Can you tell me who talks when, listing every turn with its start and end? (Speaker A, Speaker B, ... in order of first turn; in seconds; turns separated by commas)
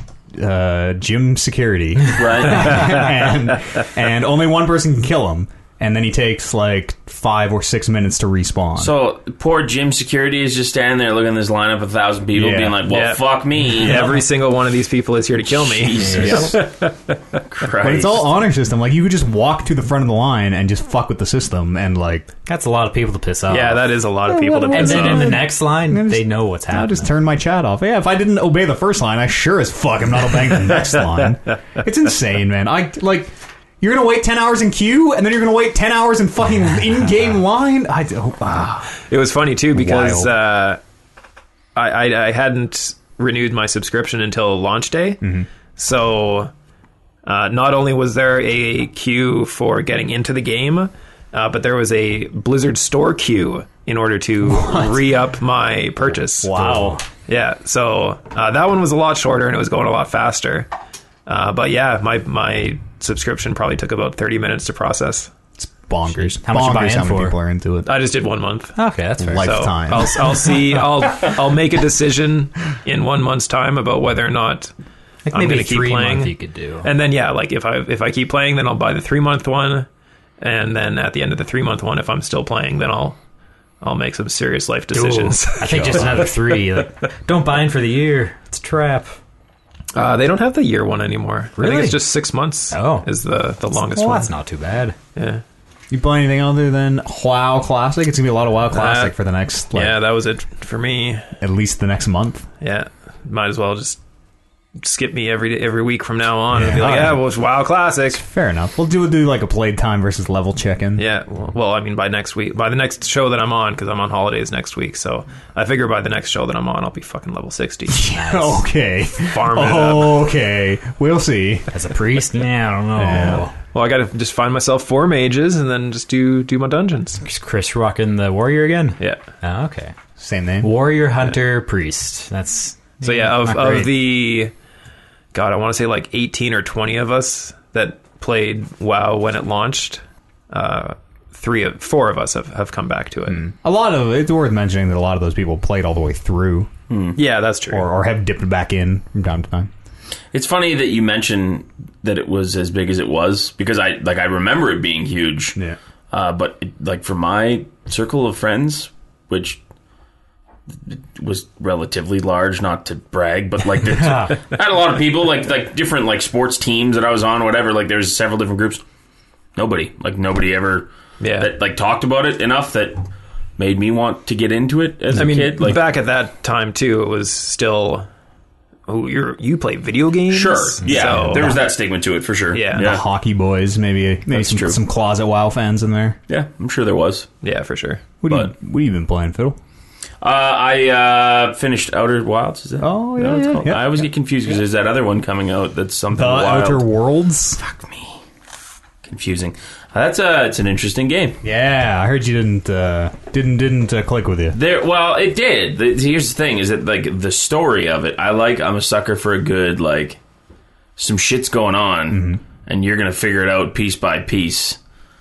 Speaker A: 0.3-8.9, Speaker B: 2.1-3.0, Speaker B: 8.8-14.1, Speaker A: 12.3-12.8, Speaker C: 12.9-17.4, Speaker B: 15.5-16.7, Speaker D: 16.0-16.5, Speaker B: 17.5-18.3, Speaker A: 17.8-22.3, Speaker D: 22.5-23.9, Speaker C: 23.5-25.5, Speaker A: 24.3-38.9, Speaker D: 24.7-27.1, Speaker C: 39.1-40.8, Speaker A: 39.7-40.3, Speaker C: 41.8-45.2, Speaker A: 45.2-45.5, Speaker C: 45.8-46.5, Speaker C: 47.2-60.7, Speaker A: 54.5-55.0, Speaker A: 56.4-57.0, Speaker C: 61.3-65.3, Speaker A: 65.6-67.9, Speaker D: 66.1-67.4, Speaker C: 67.8-68.8, Speaker D: 68.8-70.6, Speaker A: 69.2-70.2, Speaker C: 69.3-74.7, Speaker D: 75.3-76.9, Speaker C: 75.3-79.9, Speaker C: 80.4-83.2, Speaker C: 83.8-86.6, Speaker D: 84.9-89.2, Speaker A: 85.7-86.1, Speaker C: 89.9-94.3, Speaker D: 91.6-92.1, Speaker D: 92.7-93.1, Speaker D: 93.8-95.0, Speaker C: 95.2-95.4, Speaker A: 95.9-100.0, Speaker C: 98.7-99.1, Speaker C: 99.7-101.3, Speaker A: 101.4-102.5, Speaker C: 102.6-104.0, Speaker C: 104.8-108.2, Speaker A: 106.5-107.2, Speaker A: 108.1-111.0, Speaker C: 111.0-118.1, Speaker A: 117.9-121.7, Speaker D: 118.1-118.6, Speaker C: 119.2-120.2, Speaker D: 121.7-123.5, Speaker A: 123.0-123.5, Speaker C: 123.7-127.2, Speaker D: 127.2-129.9, Speaker A: 130.2-130.7, Speaker D: 130.6-133.9, Speaker C: 133.0-134.5, Speaker C: 135.3-143.5, Speaker A: 143.4-146.7, Speaker B: 146.9-147.2, Speaker C: 147.2-147.9, Speaker A: 147.7-149.7, Speaker B: 150.3-155.6, Speaker B: 156.1-159.6, Speaker B: 160.9-168.8, Speaker B: 169.6-173.0, Speaker C: 171.2-171.5, Speaker B: 173.6-175.8, Speaker C: 175.1-178.1, Speaker C: 178.9-181.6, Speaker B: 180.3-183.0, Speaker A: 181.1-181.6, Speaker C: 182.5-182.9, Speaker A: 182.8-186.2, Speaker B: 184.3-184.8, Speaker B: 186.3-187.3, Speaker C: 187.4-188.0, Speaker A: 188.2-189.6, Speaker B: 190.2-196.8, Speaker A: 192.8-194.0, Speaker A: 196.1-197.6, Speaker B: 197.6-198.2, Speaker B: 199.0-201.4, Speaker A: 201.4-204.6, Speaker B: 204.5-210.2, Speaker B: 211.0-214.8, Speaker A: 212.1-212.4